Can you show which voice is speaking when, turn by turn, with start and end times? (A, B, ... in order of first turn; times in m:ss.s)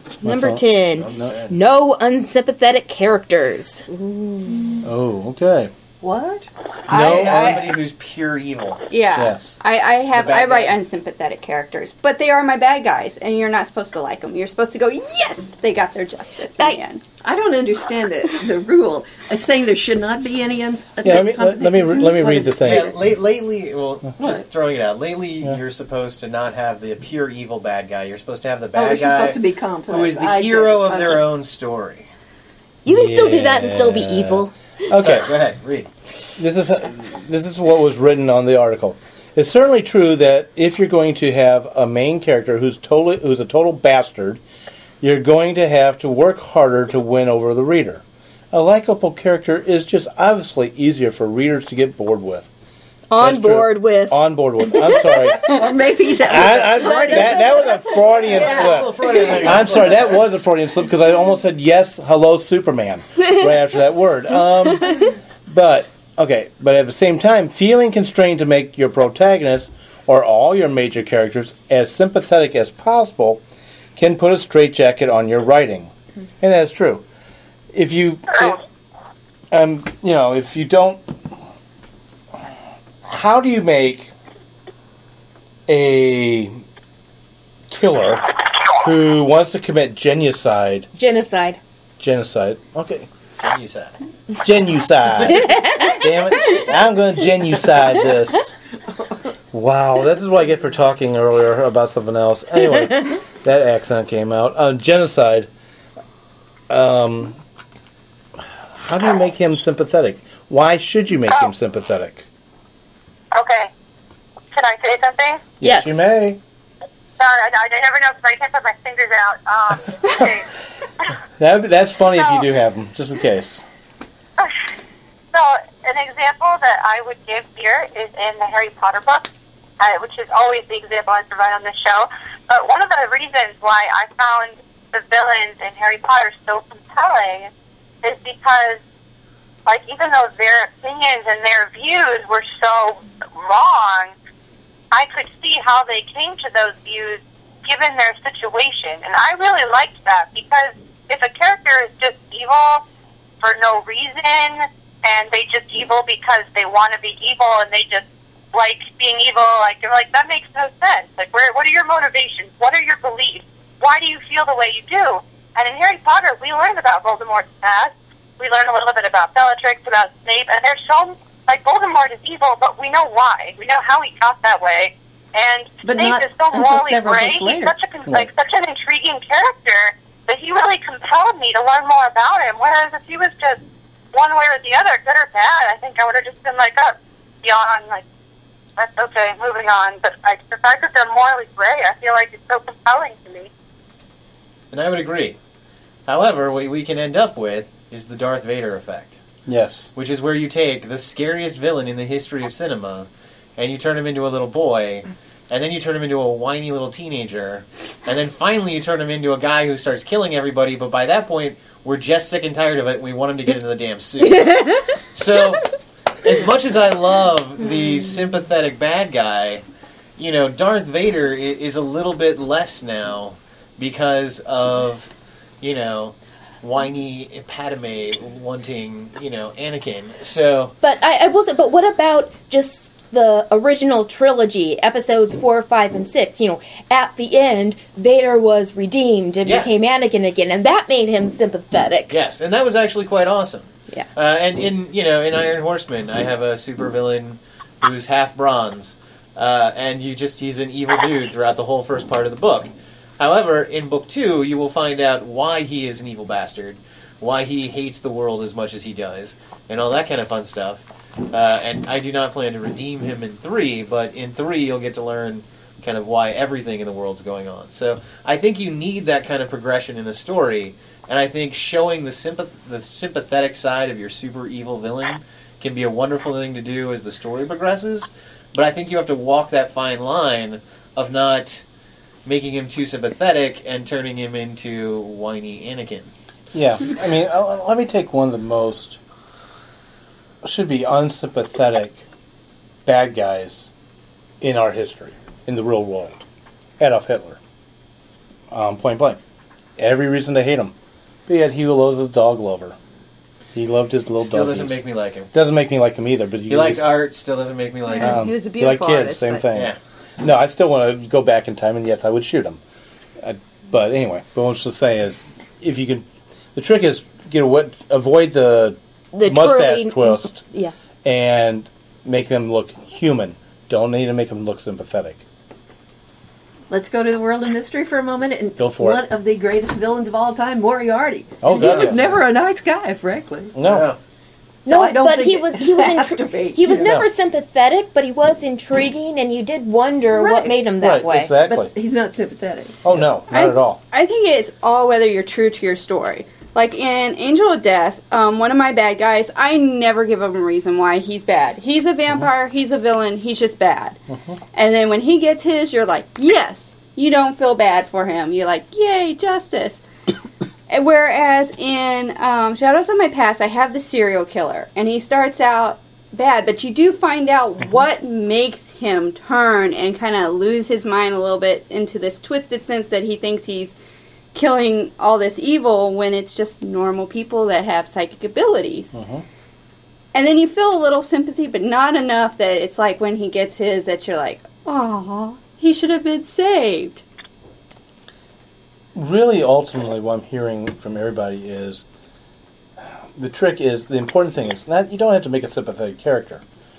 0:00.2-0:04.6 A
0:00.2-0:01.3 B
0:01.0-0:01.6 C
0:04.8-0:05.7 B
0:06.0-0:06.5 D
0:06.9-0:07.8 B
0:06.9-0:07.8 E
0:06.9-0:08.8 C
0:08.9-0:17.0 E
0:09.2-0:09.6 B
0:10.1-0:10.7 C
0:17.2-0:23.0 D
0:21.0-0:23.0 B
0:22.6-0:32.1 C
0:24.2-0:24.5 D
0:28.7-0:31.3 D
0:32.8-0:34.5 A
0:32.9-0:35.3 B
0:35.0-0:35.9 C
0:36.4-0:44.4 B
0:45.0-0:52.5 B
0:53.1-0:55.6 A
0:53.2-0:55.6 B
0:55.4-0:59.8 D
0:56.2-1:13.4 B
0:58.3-1:00.2 C
1:14.0-1:17.0 B
1:17.7-1:18.6 B
1:19.5-1:21.4 B
1:23.0-1:24.1 B
1:25.7-1:26.6 B
1:27.7-1:30.9 B
1:31.0-1:31.6 A
1:32.0-1:33.1 B
1:33.4-1:34.0 C
1:34.4-1:38.5 B
1:35.2-1:36.3 A
1:39.5-1:45.5 B
1:46.7-1:47.4 B
1:48.8-1:52.3 B
1:53.3-1:53.7 F
1:54.5-1:55.4 F
1:55.6-1:56.4 B
1:55.6-1:56.0 A
1:57.2-2:00.5 F
2:01.4-2:03.6 B
2:02.2-2:02.4 F
2:05.3-2:09.3 F
2:09.8-2:17.5 F
2:18.0-2:18.8 F
2:19.7-2:24.1 F
2:24.9-2:32.8 F
2:33.4-3:03.6 F
2:55.8-2:57.8 D
3:04.1-3:08.0 F
3:08.8-3:13.5 F
3:14.7-3:15.4 C
3:16.1-3:19.2 C
3:19.5-3:19.9 B
3:20.0-3:39.6 C
3:40.2-3:45.1 C
3:45.6-3:50.8 C
3:50.8-4:02.1 A
3:59.4-3:59.7 C
4:02.1-4:41.6 C
4:42.2-4:46.1 C
4:46.5-4:49.0 B
4:50.4-4:52.0 B
4:52.8-4:53.7 B
4:54.4-4:56.2 B
4:56.8-4:57.4 B
4:58.5-4:59.2 B
4:59.8-5:00.7 B
5:01.3-5:02.8 B
5:03.5-5:04.8 B
5:04.2-5:05.3 C
5:05.3-5:06.9 B
5:06.5-5:08.3 C
5:07.9-5:09.5 E
5:08.0-5:12.6 B
5:13.2-5:20.4 B
5:19.1-5:20.7 A
5:21.0-5:25.2 B
5:26.7-5:33.6 D
5:28.6-5:29.0 B
5:31.4-5:32.2 B
5:31.6-5:31.9 C
5:33.6-5:33.9 B
5:33.6-5:34.0 C
5:34.6-5:37.0 D
5:34.7-5:41.3 A
5:36.7-5:37.0 B
5:40.1-5:40.6 D
5:40.8-5:41.7 B
5:41.4-5:43.0 D
5:42.8-5:43.8 B
5:43.3-5:54.0 E
5:54.1-5:54.4 B
5:54.5-5:59.8 E
6:00.7-6:13.8 E
6:14.3-6:19.0 E
6:18.9-6:19.2 B
6:20.1-6:27.0 E
6:29.0-6:31.8 B
6:33.2-6:36.4 B